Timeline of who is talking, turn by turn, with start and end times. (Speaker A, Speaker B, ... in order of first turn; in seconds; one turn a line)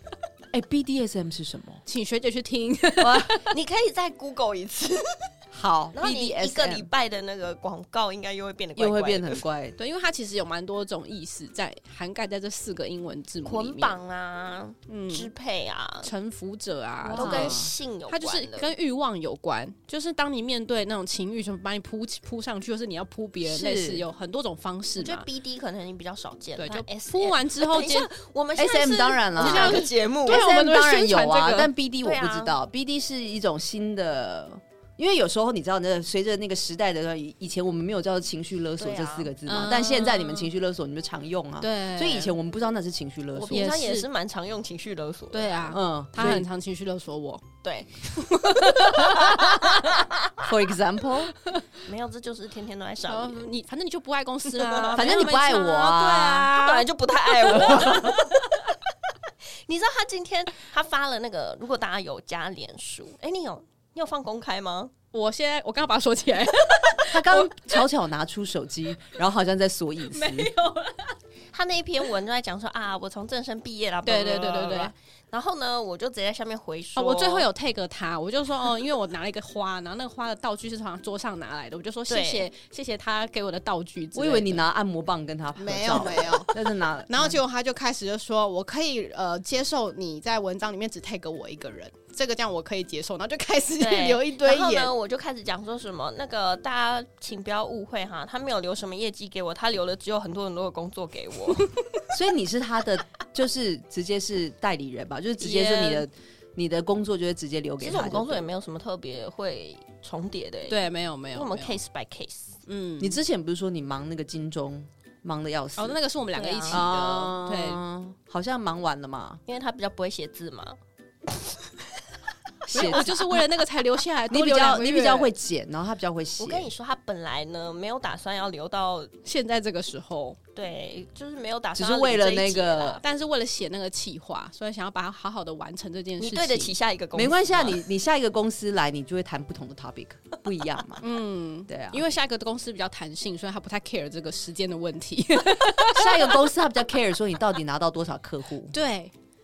Speaker A: 0.5-1.8
Speaker B: 1.9-3.5
Speaker A: 3.0-3.4
Speaker C: 3.4-5.3
Speaker A: 5.5-6.9
Speaker C: 5.9-9.4
Speaker A: 8.8-9.8
Speaker B: 9.8-14.0
Speaker C: 13.4-16.1
Speaker B: 14.9-15.3
Speaker B: 16.0-25.2
Speaker C: 17.0-18.7
Speaker A: 17.1-17.7
Speaker A: 23.4-24.1
Speaker C: 25.0-30.4
Speaker B: 26.6-28.1
Speaker A: 28.6-43.8
Speaker B: 29.4-31.7
Speaker C: 32.0-32.5
Speaker C: 38.8-39.3
Speaker B: 39.5-40.5
Speaker B: 41.6-42.3
Speaker C: 43.3-45.8
Speaker B: 43.5-44.1
Speaker B: 45.3-47.4
Speaker A: 45.7-46.5
Speaker C: 47.6-50.3
Speaker B: 48.1-49.6
Speaker A: 50.4-51.3
Speaker C: 51.8-53.4
Speaker B: 53.1-56.9
Speaker C: 54.5-55.0
Speaker A: 54.9-56.5
Speaker C: 56.5-58.5
Speaker B: 57.4-58.2
Speaker A: 57.5-58.1
Speaker C: 59.6-64.9
Speaker B: 65.1-67.7
Speaker A: 67.1-70.5
Speaker B: 70.1-71.2
Speaker C: 71.5-77.5
Speaker B: 74.0-74.9
Speaker B: 77.0-84.6
Speaker C: 82.1-82.5
Speaker A: 84.1-87.4
Speaker B: 85.6-94.9
Speaker C: 93.8-101.7
Speaker A: 102.1-108.4
Speaker B: 105.4-106.0
Speaker C: 107.8-110.8
Speaker B: 110.7-111.8
Speaker C: 111.3-112.6
Speaker B: 112.7-113.2
Speaker A: 113.0-116.0
Speaker B: 115.8-117.8
Speaker C: 116.3-116.8
Speaker A: 116.7-119.4
Speaker C: 119.5-121.7
Speaker A: 122.6-123.4
Speaker B: 122.7-125.3
Speaker A: 124.3-126.7
Speaker C: 126.4-129.1
Speaker B: 129.2-130.4
Speaker C: 130.5-133.0
Speaker A: 131.7-133.0
Speaker B: 133.0-136.7
Speaker C: 136.2-137.8
Speaker A: 137.1-141.1
Speaker B: 141.0-146.4
Speaker A: 141.7-142.1
Speaker A: 145.9-148.7
Speaker B: 148.7-149.1